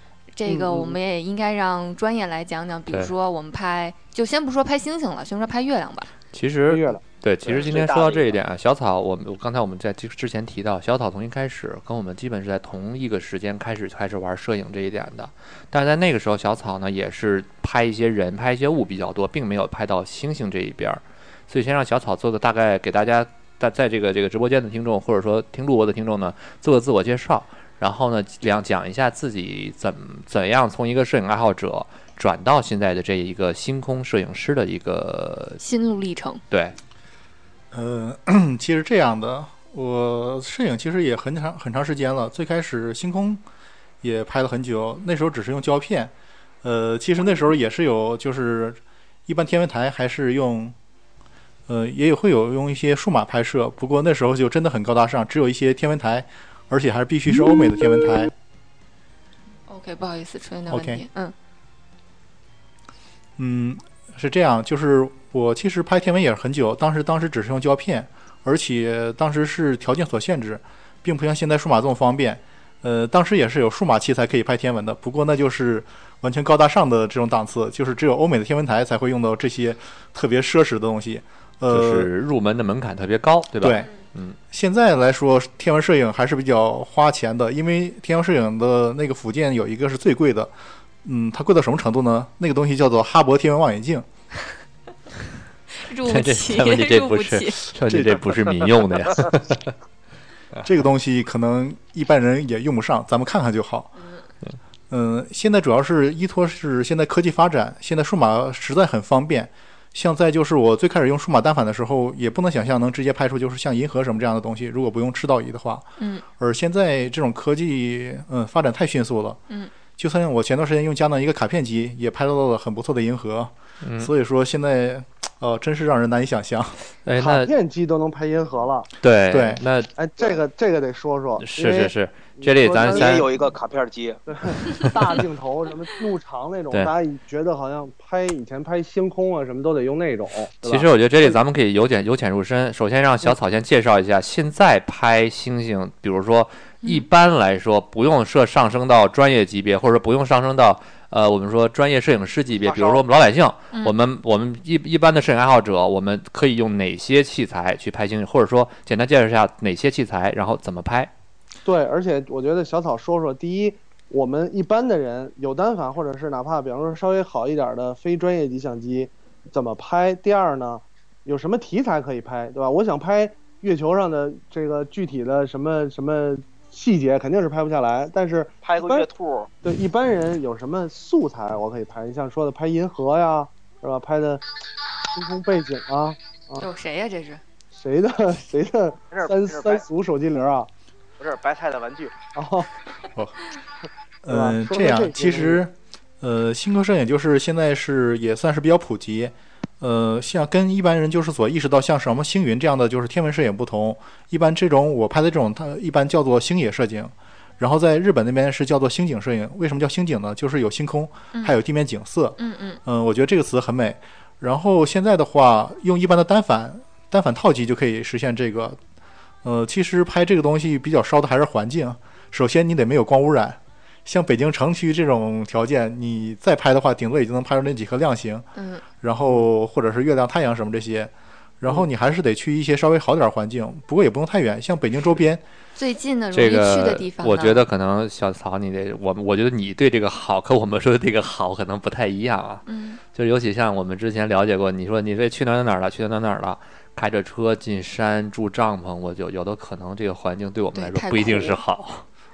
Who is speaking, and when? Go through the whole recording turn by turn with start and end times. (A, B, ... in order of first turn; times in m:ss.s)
0:00.3-0:06.1 A
0:00.4-0:01.0 B
0:06.3-0:35.6 C
0:06.7-0:07.0 B
0:07.4-0:08.4 D
0:35.6-0:36.4 A
0:36.5-0:36.8 C
0:37.7-0:43.4 E
0:44.0-0:50.7 E
0:51.7-0:58.3 E
0:59.7-1:01.3 A
1:00.7-1:01.0 E
1:03.4-1:22.1 E
1:21.7-1:24.4 C
1:23.6-1:23.9 E
1:24.5-1:30.5 E
1:31.0-1:34.0 E
1:35.8-1:37.7 A
1:36.0-1:39.7 C
1:37.9-1:38.3 E
1:40.6-1:44.0 E
1:44.9-1:55.9 E
1:56.0-1:56.2 A
1:56.4-1:59.4 E
2:00.0-2:06.8 E
2:03.8-2:04.1 C
2:07.0-2:07.5 C
2:07.2-2:08.9 B
2:09.0-2:09.9 C
2:09.3-2:09.6 E
2:10.0-2:13.5 B
2:11.4-2:13.3 C
2:12.8-2:14.2 D
2:14.3-2:21.4 B
2:20.6-2:41.1 C
2:32.6-2:33.0 D
2:41.6-2:59.1 B
2:58.6-2:59.5 D
2:59.6-3:04.4 B
3:05.1-3:06.6 B
3:06.6-3:07.4 A
3:07.7-3:10.7 B
3:09.1-3:09.8 D
3:11.2-3:12.2 D
3:12.3-3:12.7 B
3:13.1-3:13.4 E
3:14.2-3:38.8 E
3:14.3-3:15.6 B
3:32.4-3:32.8 A
3:39.4-3:48.4 E
3:48.5-3:48.8 A
3:49.0-3:55.4 E
3:55.8-3:57.6 A
3:56.3-4:12.0 C
4:02.6-4:03.0 A
4:10.7-4:11.6 A